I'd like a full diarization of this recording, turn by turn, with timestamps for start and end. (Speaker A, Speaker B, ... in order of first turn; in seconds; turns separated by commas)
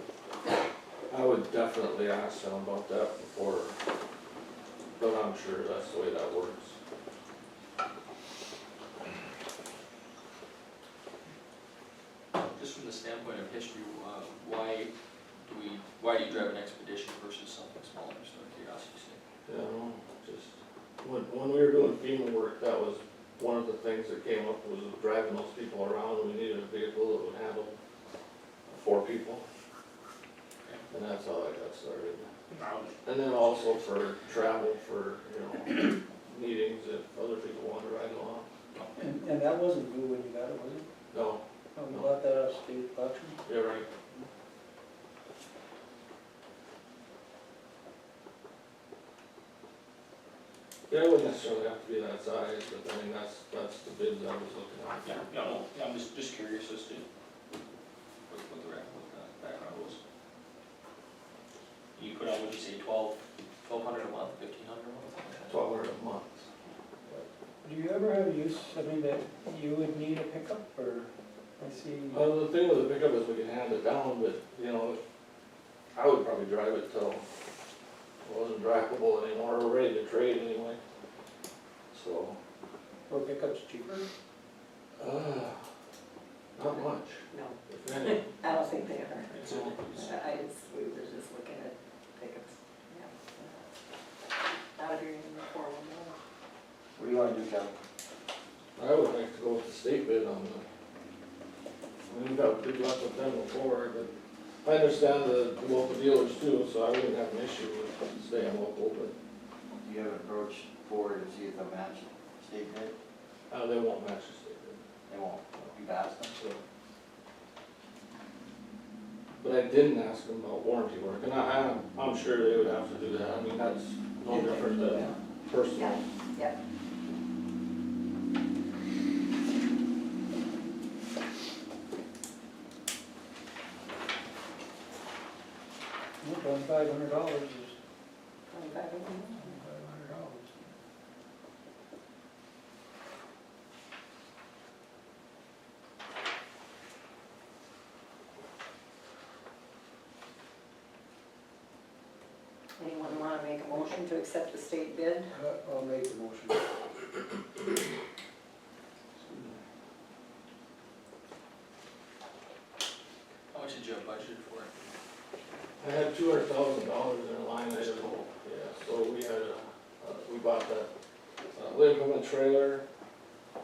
Speaker A: 1.1-3.8, Speaker A: 5.0-6.8, Speaker B: 12.4-14.9, Speaker B: 15.4-19.2, Speaker A: 19.5-27.8, Speaker A: 28.7-29.4, Speaker A: 30.9-32.3, Speaker B: 32.5-33.0, Speaker A: 33.0-38.5, Speaker C: 39.0-40.9, Speaker A: 41.1-42.1, Speaker C: 41.8-43.4, Speaker A: 43.5-43.9, Speaker A: 50.9-55.1, Speaker B: 55.0-57.0, Speaker B: 58.3-60.0, Speaker B: 61.9-65.6, Speaker A: 65.5-66.5, Speaker C: 67.1-72.3, Speaker A: 72.1-75.0, Speaker A: 75.9-77.2, Speaker A: 78.2-80.8, Speaker A: 81.9-82.4, Speaker C: 83.1-84.1, Speaker A: 85.0-85.6, Speaker A: 86.5-88.2, Speaker D: 87.3-89.3, Speaker B: 89.3-90.2, Speaker A: 89.4-89.7, Speaker D: 90.0-93.6, Speaker D: 94.5-96.2, Speaker E: 97.0-97.7, Speaker A: 98.8-100.7, Speaker A: 102.1-104.1, Speaker A: 104.6-109.1, Speaker E: 109.8-112.9, Speaker A: 113.5-114.8, Speaker E: 115.1-116.5, Speaker A: 119.4-126.0, Speaker C: 124.3-125.1, Speaker D: 125.7-126.6, Speaker C: 136.2-137.8, Speaker D: 138.5-139.5, Speaker C: 139.4-140.7, Speaker D: 152.8-155.3, Speaker C: 155.3-156.7, Speaker C: 159.3-159.6, Speaker B: 163.5-164.7, Speaker A: 165.8-170.9, Speaker B: 167.8-168.3, Speaker A: 171.5-172.8